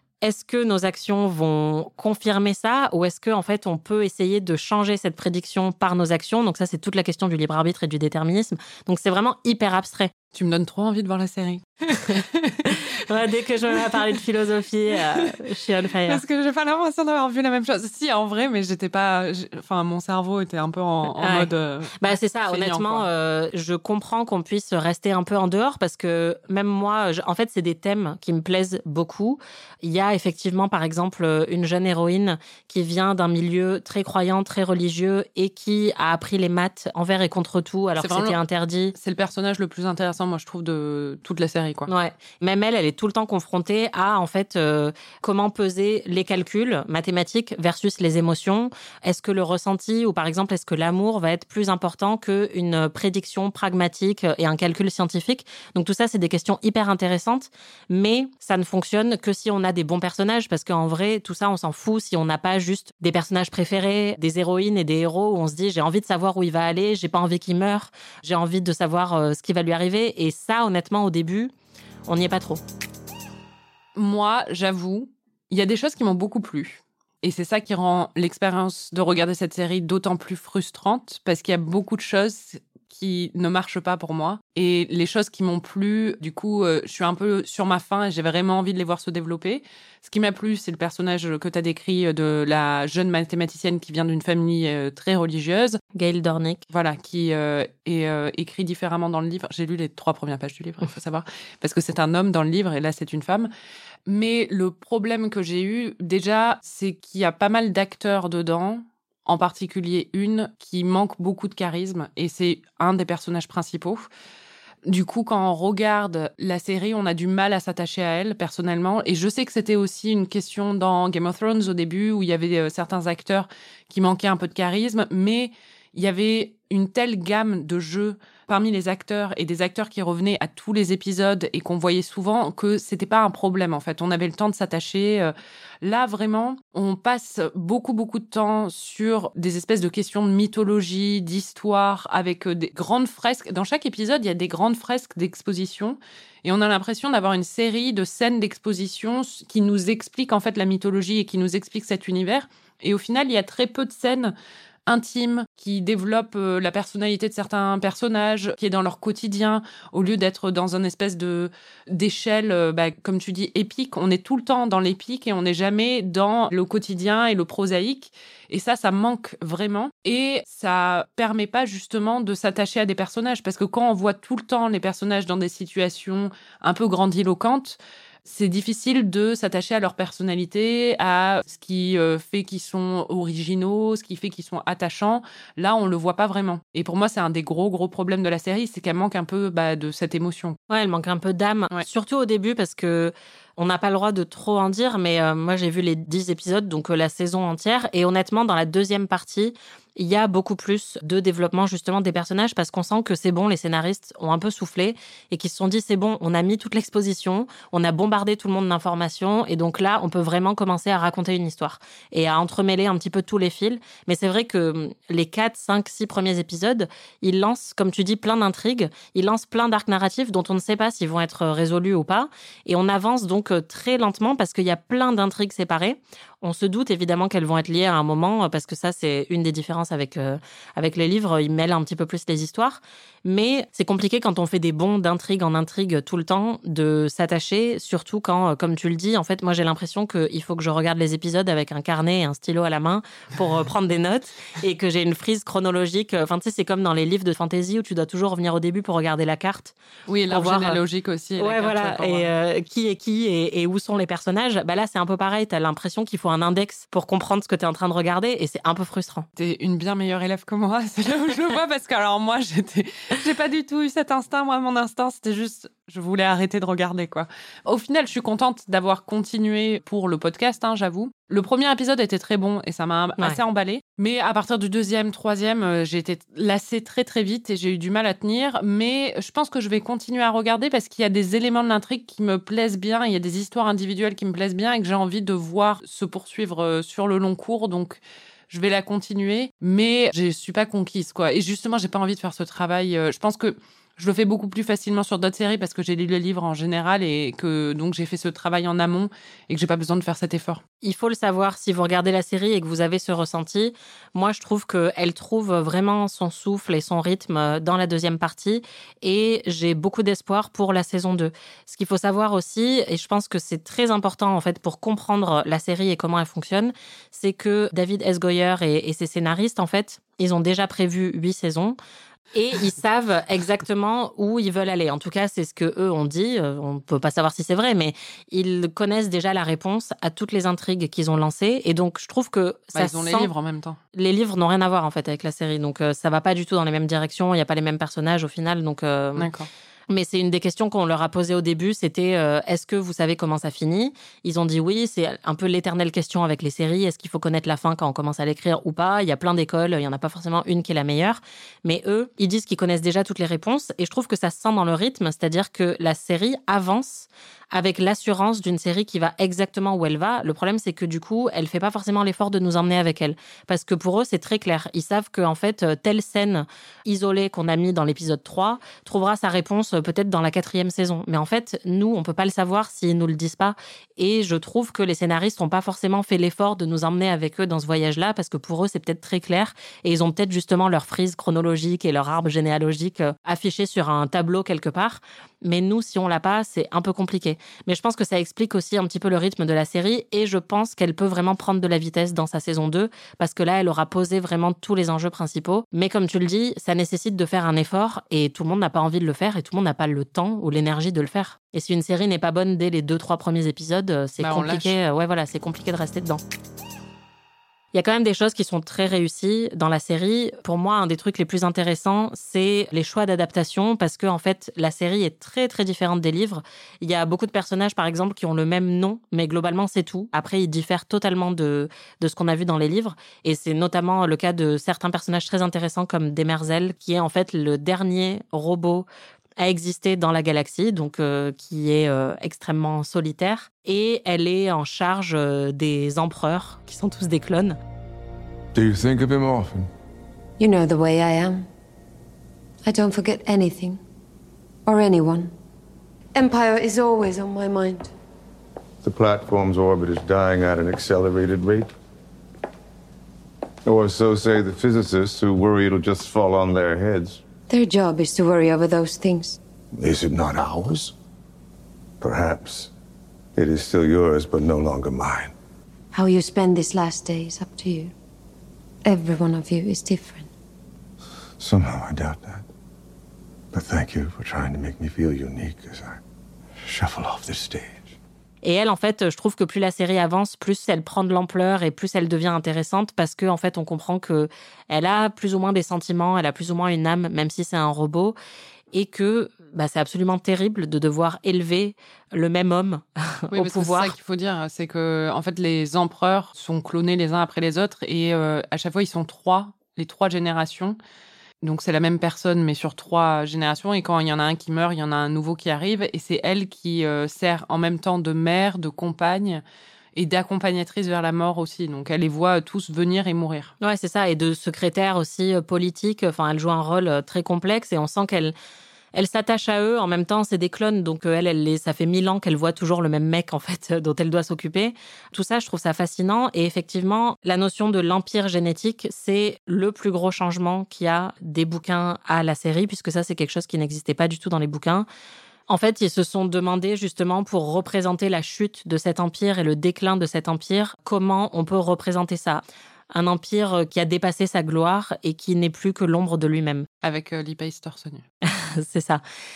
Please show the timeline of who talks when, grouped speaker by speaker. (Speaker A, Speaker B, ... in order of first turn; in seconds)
Speaker A: 0.2-10.1, 12.7-16.2, 21.2-39.0, 41.9-71.5, 72.1-72.6, 96.0-96.6, 190.7-249.7, 250.3-250.8, 251.4-259.3, 300.8-321.8, 322.3-333.3, 333.9-339.3, 339.9-406.2, 407.7-428.9, 429.4-437.6, 478.4-488.2, 488.7-493.9, 513.6-518.3, 518.9-534.9, 535.5-546.7, 548.2-549.0
Speaker B: 10.3-12.8, 13.7-14.0, 14.9-15.4, 16.1-23.1, 38.0-38.4, 39.0-41.9, 74.0-95.8, 96.7-103.5, 104.1-114.1, 114.8-154.3, 154.9-190.6, 250.1-252.3, 259.4-300.6, 332.8-333.8, 339.2-339.5, 404.2-404.8, 493.3-500.8, 501.4-509.4, 509.9-513.5, 546.8-548.0
Speaker C: 438.5-439.7, 448.8-451.7, 453.7-457.2, 459.8-460.9, 462.0-462.7, 463.4-465.3, 471.4-472.4, 473.5-476.0, 476.6-477.9
Speaker D: 440.4-441.5, 442.6-443.8, 444.7-445.3, 446.1-447.9, 457.5-459.4, 465.9-467.9, 468.9-470.3